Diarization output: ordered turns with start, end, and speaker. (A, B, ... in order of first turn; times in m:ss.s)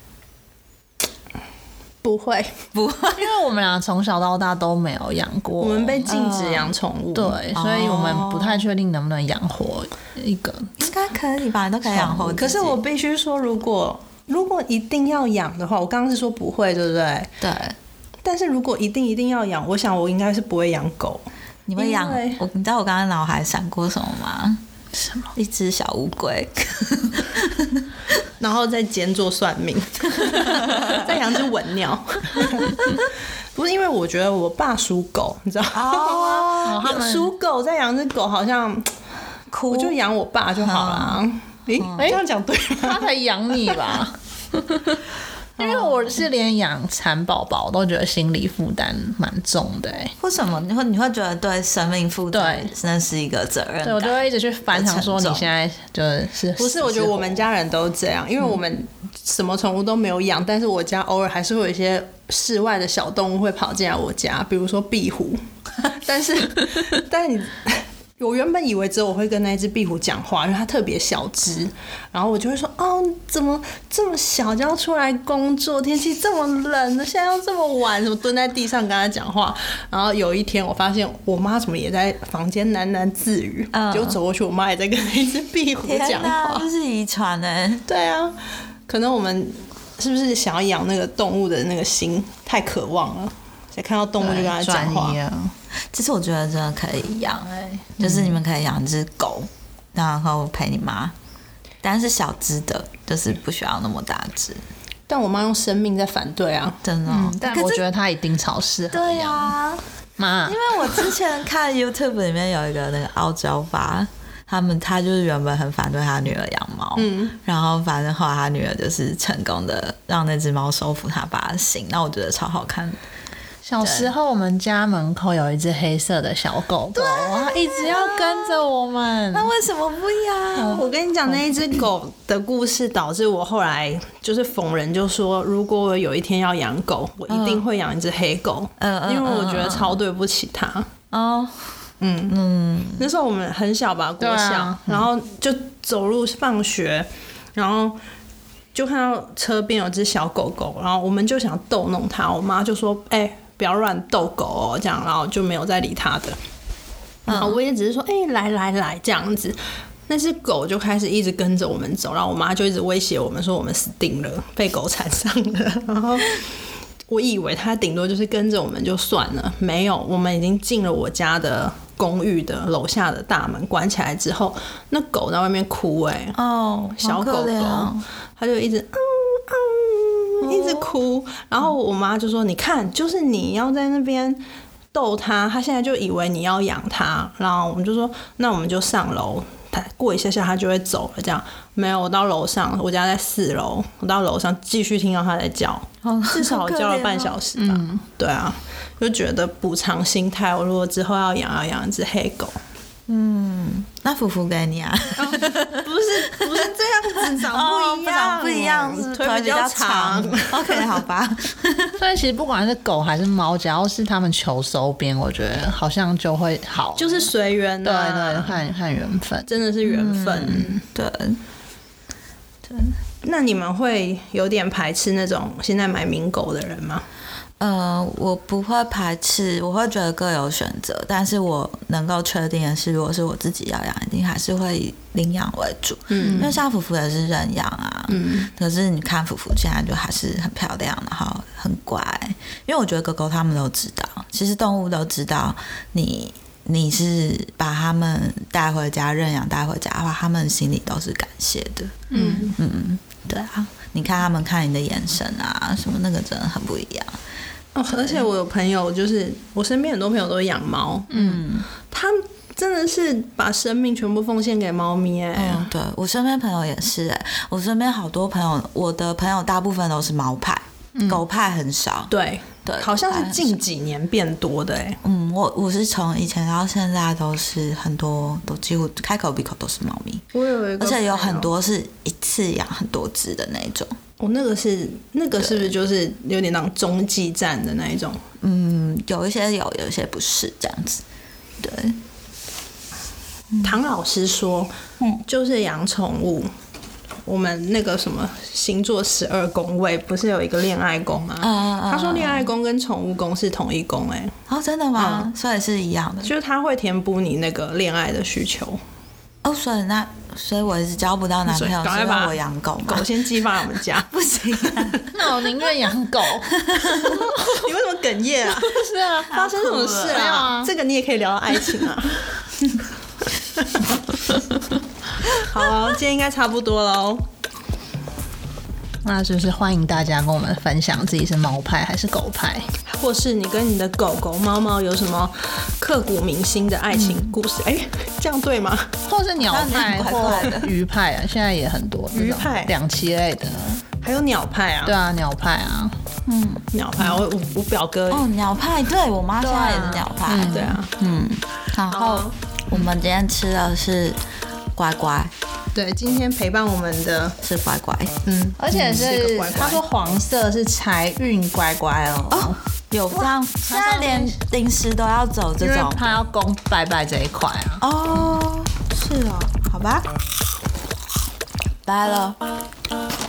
0:02.0-0:02.6 A
0:02.7-0:03.4 B
0:03.2-0:06.1 C
0:05.6-0:07.4 A
0:06.1-0:06.7 B
0:07.2-0:10.7 C
0:07.5-0:08.7 B
0:10.8-0:12.8 B
0:12.2-0:17.3 A
0:17.4-0:17.8 B
0:18.2-0:21.2 A
0:21.7-0:24.6 B
0:21.8-0:22.4 A
0:25.0-0:25.3 C
0:25.4-0:27.8 B
0:28.4-0:33.0 A
0:30.3-0:30.8 B
0:33.6-0:38.9 A
0:35.7-0:36.9 B
0:36.6-0:37.3 C
0:39.5-0:40.0 B
0:39.7-0:43.1 A
0:40.6-0:41.2 B
0:41.8-0:42.2 B
0:42.8-0:45.0 C
0:45.6-0:50.1 C
0:45.6-0:46.0 B
0:50.2-0:54.2 B
0:52.3-0:52.7 C
0:53.8-0:57.4 C
0:54.7-0:55.5 B
0:56.6-1:26.7 A
1:23.7-1:24.2 B
1:25.8-1:27.8 B
1:27.9-1:35.2 A
1:34.2-1:35.5 C
1:35.9-1:41.1 B
1:37.6-1:38.4 C
1:41.8-1:44.6 B
1:45.1-1:46.8 A
1:46.8-1:47.8 B
1:47.1-1:49.5 C
1:48.9-1:49.8 B
1:50.2-1:50.6 C
1:50.5-2:03.0 B
1:57.0-1:57.4 A
2:03.6-2:09.5 C
2:03.8-2:04.1 B
2:07.0-2:08.7 B
2:09.3-2:10.8 B
2:10.6-2:20.9 A
2:17.3-2:17.6 B
2:18.8-2:20.0 B
2:21.1-2:21.6 B
2:22.0-2:22.4 A
2:22.3-2:23.1 B
2:23.0-2:28.0 A
2:24.2-2:25.1 C
2:28.7-2:36.4 A
2:37.3-2:37.6 B
2:37.3-2:46.4 A
2:47.1-2:56.4 A
2:56.4-2:58.0 B
2:57.0-3:04.4 A
3:00.4-3:01.0 B
3:04.9-3:22.6 A
3:16.0-3:17.4 B
3:17.6-3:18.0 C
3:23.1-3:25.9 B
3:25.2-3:31.0 A
3:27.4-3:32.0 B
3:32.0-3:37.3 C
3:37.0-3:38.6 A
3:37.8-3:39.5 C
3:39.5-3:40.8 A
3:39.8-3:41.4 B
3:42.7-3:43.0 B
3:43.2-3:47.0 A
3:47.6-4:17.2 B
3:56.1-3:56.6 A
3:58.1-3:58.5 A
4:12.1-4:12.6 A
4:17.8-4:21.4 A
4:17.9-4:18.2 B
4:21.1-4:21.7 B
4:21.1-4:21.4 C
4:21.9-4:25.7 A
4:25.4-4:32.1 B
4:31.0-4:31.2 C
4:32.1-4:35.0 A
4:32.6-4:33.6 B
4:35.0-4:40.2 B
4:40.3-4:41.5 A
4:40.8-4:43.9 B
4:44.2-4:48.2 A
4:45.4-4:45.7 B
4:48.4-4:51.0 B
4:51.6-4:52.0 B
4:53.6-4:54.7 A
4:55.3-4:56.5 A
4:57.3-5:04.4 A
5:01.4-5:02.5 B
5:04.5-5:06.3 B
5:05.0-5:05.3 A
5:06.2-5:08.8 A
5:09.4-5:13.1 B
5:11.5-5:14.2 A
5:14.1-5:15.1 B
5:14.7-5:15.0 A
5:15.1-5:17.6 C
5:16.5-5:17.3 B
5:16.9-5:22.4 A
5:18.6-5:20.7 C
5:19.3-5:20.3 B
5:25.3-5:27.2 A
5:29.0-5:32.7 C
5:32.9-5:39.0 A
5:39.1-5:43.8 C
5:39.4-5:40.7 B
5:42.1-5:42.7 A
5:44.0-5:45.0 A
5:44.8-5:46.0 C
5:46.3-5:46.7 B
5:46.7-5:48.3 A
5:48.1-5:54.2 B
5:49.4-5:50.8 C
5:50.5-5:50.9 A
5:51.9-5:52.4 A
5:54.8-5:55.3 B
5:55.8-5:57.4 A
5:57.4-5:58.2 B
5:58.2-5:59.8 A
5:58.6-6:02.6 C
5:58.7-5:59.6 B
6:02.3-6:06.2 B
6:03.1-6:04.4 C
6:05.6-6:07.8 C
6:07.8-6:10.1 B
6:11.8-6:12.4 B